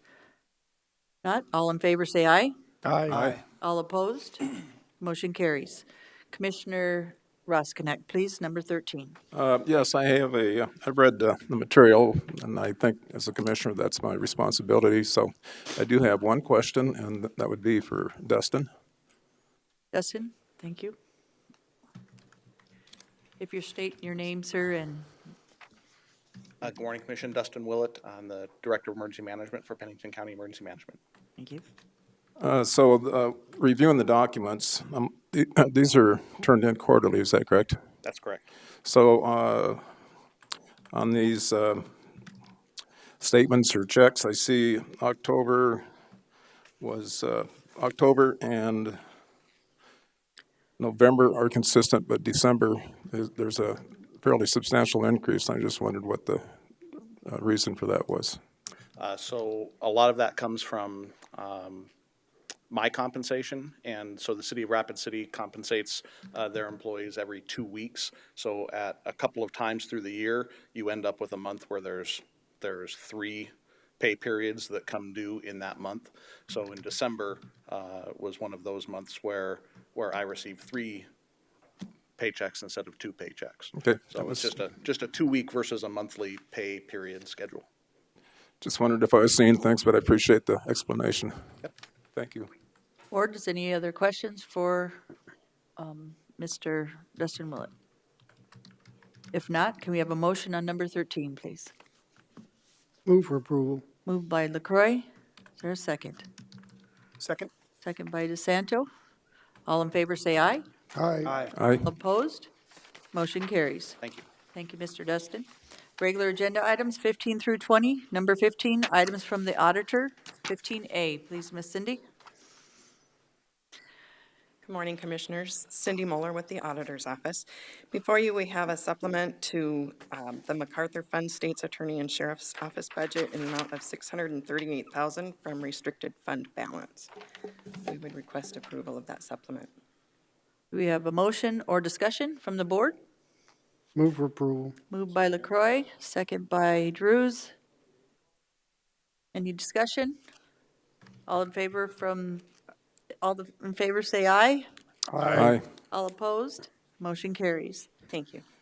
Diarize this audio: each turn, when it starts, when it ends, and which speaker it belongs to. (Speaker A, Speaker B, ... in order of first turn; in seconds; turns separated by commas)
Speaker A: 1.2-2.5, Speaker B: 2.8-3.3, Speaker C: 3.1-3.4, Speaker A: 3.6-4.4, Speaker A: 5.0-9.2, Speaker C: 9.3-18.7, Speaker A: 19.9-21.0, Speaker A: 23.4-25.1, Speaker D: 26.6-31.0, Speaker A: 31.4-31.6, Speaker C: 32.4-37.8, Speaker D: 38.0-38.4, Speaker C: 38.8-39.8, Speaker C: 40.9-41.9, Speaker C: 43.2-45.8, Speaker C: 46.8-49.0, Speaker C: 50.8-56.5, Speaker C: 57.3-58.4, Speaker D: 59.0-61.9, Speaker D: 62.7-81.1, Speaker D: 82.2-87.7, Speaker C: 83.8-84.5, Speaker C: 88.6-91.3, Speaker C: 92.2-92.5, Speaker A: 93.1-95.0, Speaker A: 95.8-97.7, Speaker A: 99.3-101.7, Speaker B: 103.0-103.8, Speaker A: 104.0-105.0, Speaker A: 105.6-106.2, Speaker A: 107.8-108.9, Speaker A: 109.7-110.6, Speaker B: 110.9-111.5, Speaker C: 111.5-111.8, Speaker A: 111.8-112.5, Speaker A: 113.1-114.0, Speaker D: 114.0-114.3, Speaker A: 114.5-115.5, Speaker A: 116.0-122.0, Speaker E: 124.6-137.1, Speaker E: 137.8-139.7, Speaker A: 140.7-143.0, Speaker B: 143.9-144.8, Speaker A: 144.9-147.5, Speaker A: 149.3-150.2, Speaker A: 151.3-152.4, Speaker A: 153.2-154.7, Speaker B: 155.1-155.5, Speaker C: 155.3-155.6, Speaker A: 155.9-157.9, Speaker E: 158.1-158.4